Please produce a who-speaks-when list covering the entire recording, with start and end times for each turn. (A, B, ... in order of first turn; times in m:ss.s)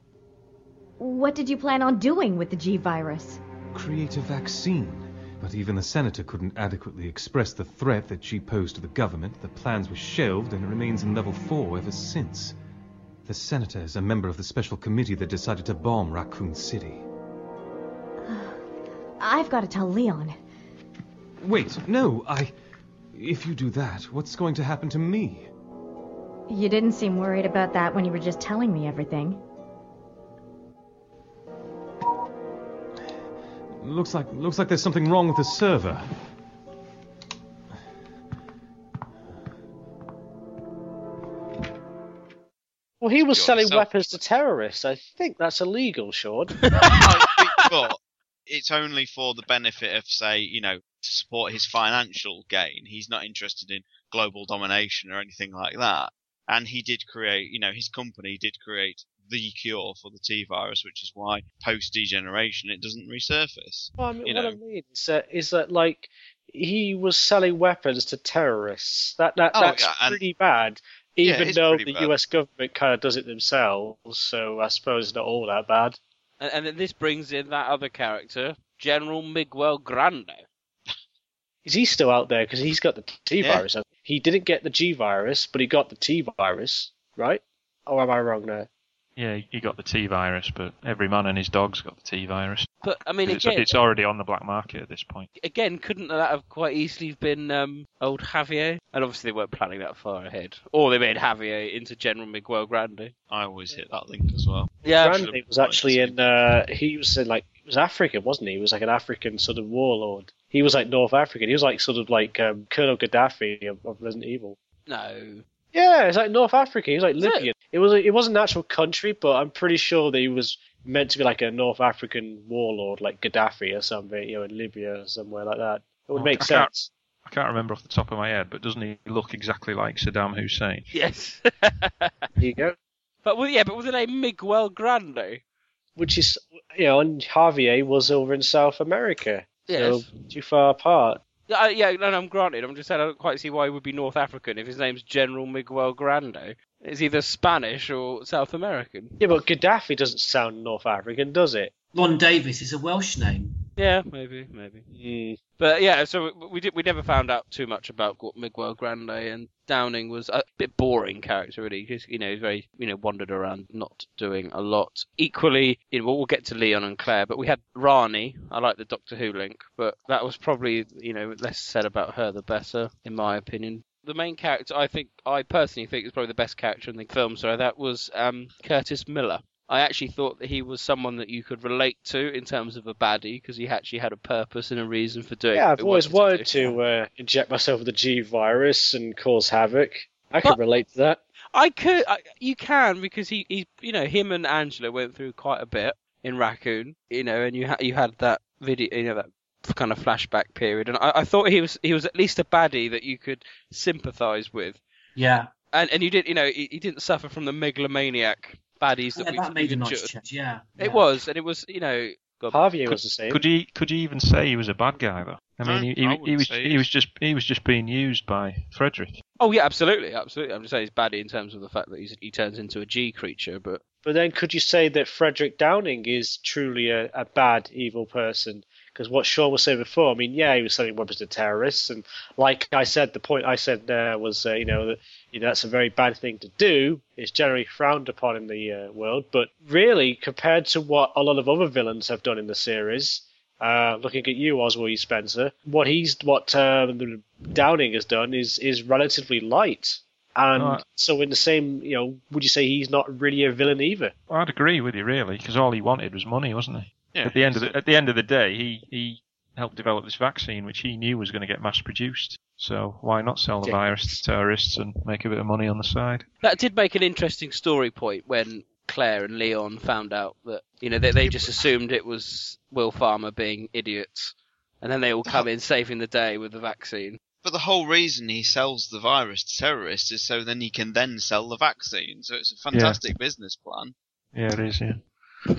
0:01.0-0:03.4 A
0:03.7-0:12.6 B
0:13.3-0:17.0 B
0:18.3-0:18.6 A
0:19.2-0:20.4 A
0:21.4-0:22.5 B
0:23.1-0:25.5 B
0:26.5-0:29.4 A
0:33.8-0:36.1 B
0:43.0-0:46.5 C
0:43.3-0:44.2 D
0:46.6-0:47.5 E
0:46.8-1:04.6 D
1:04.0-1:16.0 C
1:09.5-1:10.2 D
1:11.2-1:12.1 D
1:16.4-1:20.4 E
1:21.6-1:28.7 C
1:23.4-1:23.6 D
1:29.2-1:35.3 F
1:32.8-1:33.8 E
1:35.4-1:43.1 E
1:43.3-1:46.2 D
1:44.8-1:45.2 E
1:44.8-1:54.6 C
1:54.9-1:55.4 E
1:55.7-2:06.9 C
1:57.2-1:57.5 E
2:06.1-2:06.7 F
2:07.2-2:10.9 F
2:10.9-2:12.2 E
2:12.4-2:12.8 C
2:13.2-2:15.4 E
2:16.0-2:21.2 C
2:19.7-2:20.3 E
2:21.5-2:29.2 E
2:29.2-2:31.7 C
2:31.9-2:33.6 G
2:33.8-2:34.9 E
2:35.0-2:35.4 C
2:35.6-3:06.8 E
3:05.5-3:11.2 C
3:11.5-3:24.8 E
3:25.2-3:25.5 G
3:25.7-3:30.1 E
3:29.1-3:31.0 G
3:30.8-3:32.6 E
3:32.5-3:33.4 C
3:33.3-3:39.2 F
3:35.6-3:36.9 D
3:39.4-3:43.8 E
3:44.0-4:14.1 C
4:10.6-4:10.8 F
4:14.3-4:26.3 F
4:17.1-4:17.8 D
4:23.6-4:24.2 C
4:26.4-4:37.2 E
4:31.2-4:31.6 D
4:37.4-4:44.0 D
4:42.7-4:43.0 F
4:44.3-4:45.0 F